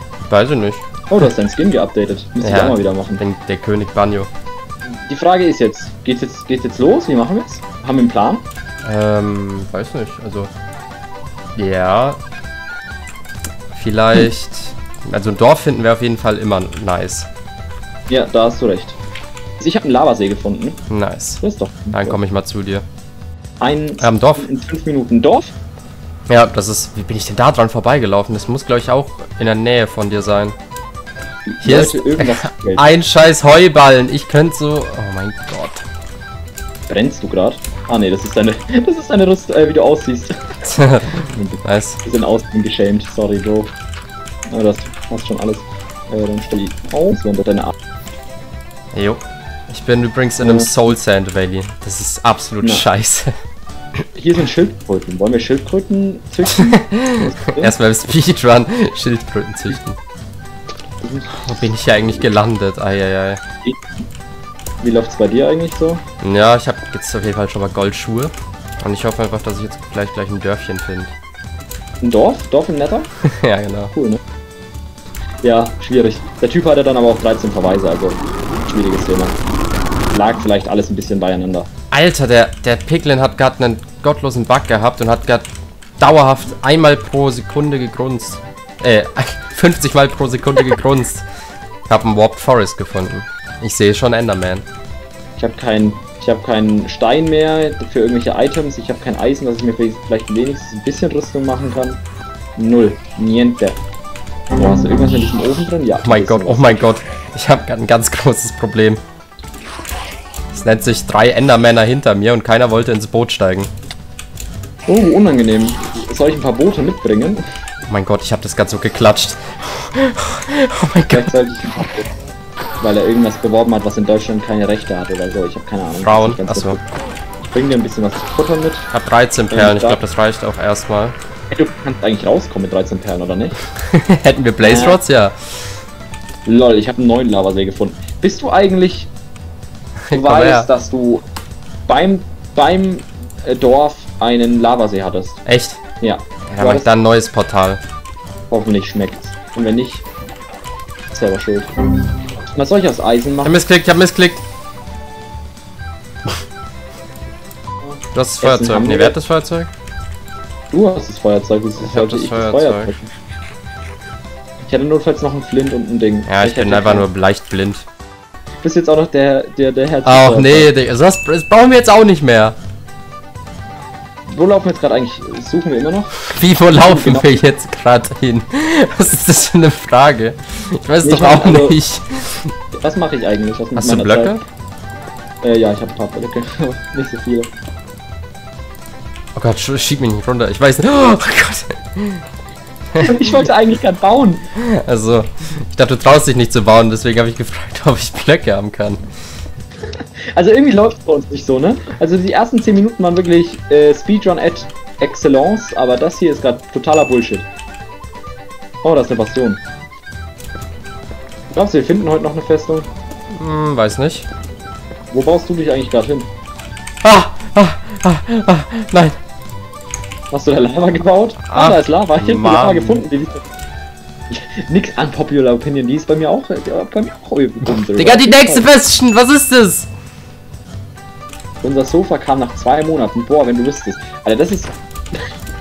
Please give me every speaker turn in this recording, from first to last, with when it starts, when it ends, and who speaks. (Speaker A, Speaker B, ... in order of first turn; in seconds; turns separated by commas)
Speaker A: 0.2-0.8, Speaker B: 1.1-3.2, Speaker A: 2.4-4.3, Speaker B: 4.8-8.4, Speaker A: 8.8-10.5, Speaker A: 11.6-12.2, Speaker A: 13.7-17.3, Speaker B: 18.1-19.0, Speaker B: 19.6-20.8, Speaker A: 20.9-21.4, Speaker B: 21.4-22.2, Speaker A: 21.9-22.8, Speaker B: 23.6-25.5, Speaker A: 24.0-24.5, Speaker A: 26.3-30.5, Speaker B: 31.5-32.9, Speaker A: 31.6-35.8, Speaker B: 36.9-43.7, Speaker A: 40.7-42.0, Speaker B: 44.5-47.7, Speaker A: 48.9-53.3, Speaker B: 50.4-50.7, Speaker B: 54.1-57.7, Speaker A: 56.6-60.0, Speaker B: 61.0-62.2, Speaker A: 61.4-63.4, Speaker B: 64.8-66.0, Speaker A: 66.2-71.1, Speaker B: 72.0-73.1, Speaker A: 73.4-73.9, Speaker B: 73.9-74.2, Speaker B: 75.4-79.3, Speaker B: 80.1-81.7, Speaker A: 81.9-85.5, Speaker A: 86.0-91.2, Speaker A: 91.9-94.7, Speaker B: 95.4-102.0, Speaker B: 102.6-103.8, Speaker B: 104.5-106.9, Speaker A: 106.0-109.0, Speaker A: 110.5-113.7, Speaker B: 114.9-117.4, Speaker A: 117.9-121.3, Speaker B: 121.1-122.1, Speaker B: 122.8-126.8, Speaker A: 126.0-126.8, Speaker B: 127.4-128.9, Speaker A: 128.9-131.1, Speaker B: 129.5-130.0, Speaker B: 131.5-133.6, Speaker A: 133.9-135.3, Speaker B: 134.6-135.0, Speaker B: 136.4-139.1, Speaker A: 140.1-140.7, Speaker B: 140.1-141.2, Speaker B: 141.9-145.4, Speaker A: 145.4-145.8, Speaker B: 146.0-146.9, Speaker A: 146.5-147.8, Speaker B: 148.5-150.0, Speaker B: 151.1-151.7, Speaker B: 152.5-153.6, Speaker A: 153.4-154.4, Speaker B: 157.8-159.1, Speaker A: 158.1-159.7, Speaker B: 160.7-163.1, Speaker A: 161.8-162.9, Speaker B: 164.6-167.1, Speaker A: 166.3-167.8, Speaker B: 168.6-170.7, Speaker A: 170.0-172.6, Speaker B: 174.3-176.1, Speaker A: 176.2-182.5, Speaker B: 176.7-177.4, Speaker B: 181.0-181.8, Speaker B: 182.8-184.4, Speaker A: 183.8-184.4, Speaker B: 185.4-187.5, Speaker A: 189.3-192.2, Speaker A: 192.9-193.4, Speaker B: 193.0-194.4, Speaker A: 194.6-199.0, Speaker B: 200.3-207.5, Speaker B: 208.8-209.6, Speaker B: 211.5-212.9, Speaker A: 213.3-214.3, Speaker B: 215.1-216.3, Speaker A: 217.0-219.2, Speaker B: 220.3-223.4, Speaker A: 221.5-223.1, Speaker B: 224.3-228.7, Speaker A: 227.9-229.9, Speaker B: 231.6-235.3